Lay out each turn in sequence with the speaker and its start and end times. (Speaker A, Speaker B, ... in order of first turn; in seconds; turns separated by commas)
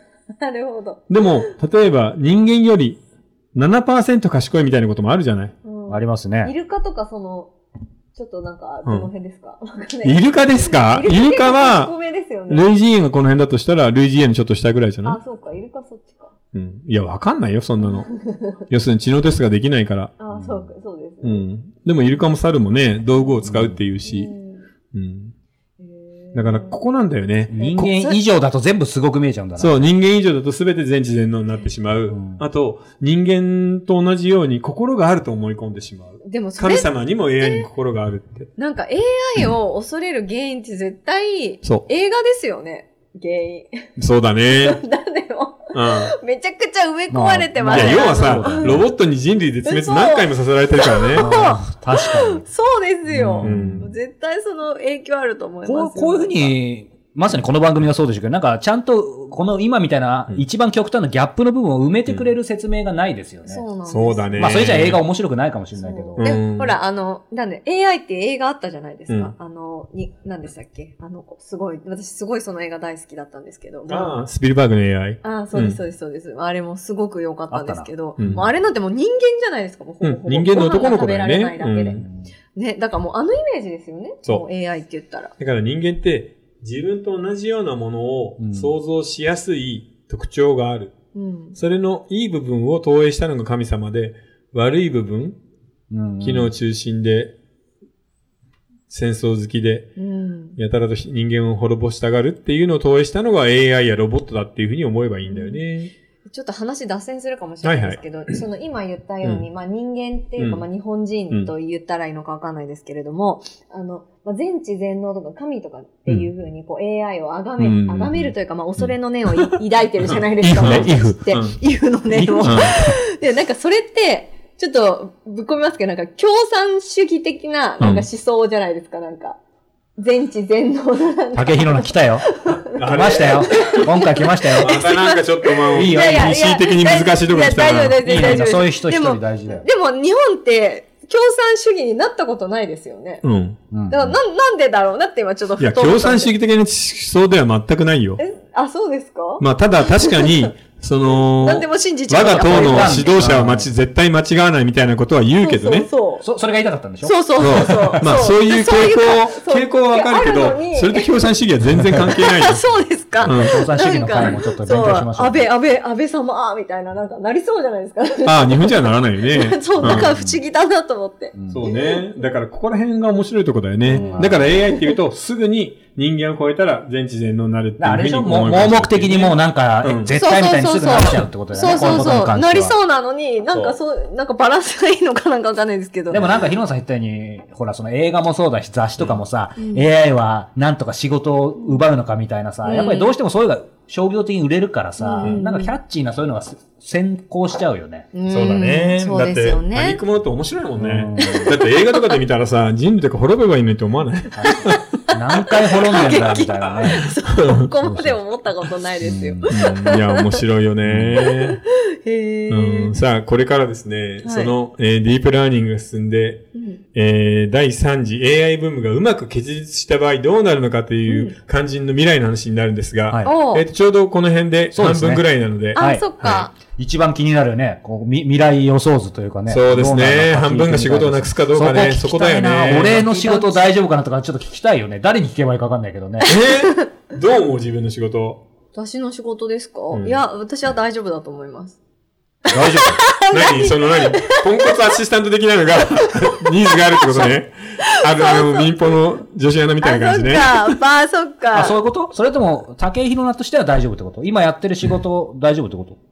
Speaker A: 0.4-1.5, Speaker B: 1.1-3.0, Speaker B: 3.5-5.5, Speaker A: 5.6-7.5, Speaker C: 5.9-6.5, Speaker A: 8.1-12.7, Speaker B: 8.8-9.1, Speaker B: 10.0-11.9, Speaker B: 12.5-15.2, Speaker A: 15.0-16.3, Speaker B: 16.5-18.1, Speaker A: 17.8-18.6, Speaker B: 18.7-20.1, Speaker A: 20.2-21.4, Speaker C: 20.3-20.7, Speaker B: 21.2-24.3, Speaker C: 23.4-23.8, Speaker A: 24.0-24.6, Speaker B: 24.9-25.3, Speaker A: 25.8-26.8, Speaker B: 26.3-27.6, Speaker C: 27.5-29.7, Speaker A: 27.6-28.2, Speaker B: 29.6-38.5, Speaker C: 32.1-32.4, Speaker A: 36.2-37.7, Speaker A: 38.6-43.8, Speaker B: 44.0-44.8, Speaker A: 44.5-48.8, Speaker B: 45.7-46.1, Speaker C: 47.1-48.8, Speaker B: 47.7-51.3, Speaker A: 49.6-56.5, Speaker C: 51.1-52.4, Speaker C: 53.1-53.9, Speaker B: 53.4-53.9, Speaker C: 55.6-63.6, Speaker A: 63.5-64.5, Speaker B: 63.9-65.0, Speaker C: 64.4-66.2, Speaker A: 65.8-74.1, Speaker B: 66.2-66.8, Speaker B: 73.9-75.8, Speaker A: 75.2-85.3, Speaker C: 77.5-78.5, Speaker B: 78.2-78.4, Speaker B: 80.0-82.0, Speaker C: 82.0-82.2, Speaker B: 85.4-90.9, Speaker C: 88.4-88.7, Speaker A: 91.1-91.6, Speaker B: 91.5-95.4, Speaker C: 95.9-96.5, Speaker B: 96.2-97.3, Speaker B: 98.9-99.9, Speaker A: 100.0-100.6, Speaker B: 100.5-105.9, Speaker A: 105.2-105.6, Speaker A: 106.3-129.4, Speaker B: 107.6-108.4, Speaker B: 110.4-110.6, Speaker B: 117.6-121.6, Speaker C: 120.4-121.2, Speaker C: 122.1-123.0, Speaker B: 122.4-122.8, Speaker B: 127.8-128.1, Speaker A: 130.0-143.2, Speaker C: 131.3-132.3, Speaker B: 132.7-133.9, Speaker C: 132.8-134.7, Speaker B: 134.6-138.5, Speaker C: 135.7-136.3, Speaker C: 138.0-139.7, Speaker B: 143.2-143.6, Speaker C: 143.7-144.2, Speaker A: 143.9-146.3, Speaker B: 145.6-148.2, Speaker A: 148.2-150.5, Speaker B: 149.4-155.9, Speaker A: 151.3-153.2, Speaker C: 152.4-153.7, Speaker A: 155.4-156.2, Speaker C: 156.2-158.0, Speaker A: 157.0-161.1, Speaker B: 157.4-162.6, Speaker A: 162.1-172.1, Speaker B: 163.2-163.6, Speaker C: 163.2-165.5, Speaker B: 168.2-170.1, Speaker C: 169.8-170.4, Speaker C: 171.3-171.6, Speaker B: 171.5-180.1, Speaker C: 173.8-174.5, Speaker A: 173.9-174.9, Speaker C: 177.8-182.8, Speaker A: 180.1-186.2, Speaker B: 183.5-183.8, Speaker C: 186.1-198.1, Speaker A: 189.6-189.8, Speaker A: 192.6-193.1, Speaker A: 195.0-195.7, Speaker A: 198.1-200.0, Speaker B: 198.3-204.8, Speaker C: 200.8-201.5, Speaker A: 201.2-202.2, Speaker C: 204.3-207.1, Speaker A: 204.4-210.4, Speaker C: 207.8-208.2, Speaker C: 209.0-209.5, Speaker B: 209.5-211.6, Speaker C: 210.8-211.2, Speaker A: 211.2-212.9, Speaker B: 212.5-226.5, Speaker A: 214.2-214.5, Speaker A: 216.5-216.8, Speaker A: 221.1-221.3, Speaker C: 223.1-223.3, Speaker A: 223.2-223.7, Speaker C: 224.7-225.2, Speaker A: 225.7-226.5, Speaker C: 225.8-226.1, Speaker C: 226.7-236.3, Speaker B: 229.5-233.5, Speaker B: 236.2-238.4, Speaker A: 236.3-236.9, Speaker A: 238.7-241.8, Speaker B: 239.9-240.2, Speaker C: 242.5-243.0, Speaker A: 242.6-244.9, Speaker B: 243.3-250.8, Speaker A: 245.9-248.8, Speaker A: 249.8-251.8, Speaker C: 251.5-256.0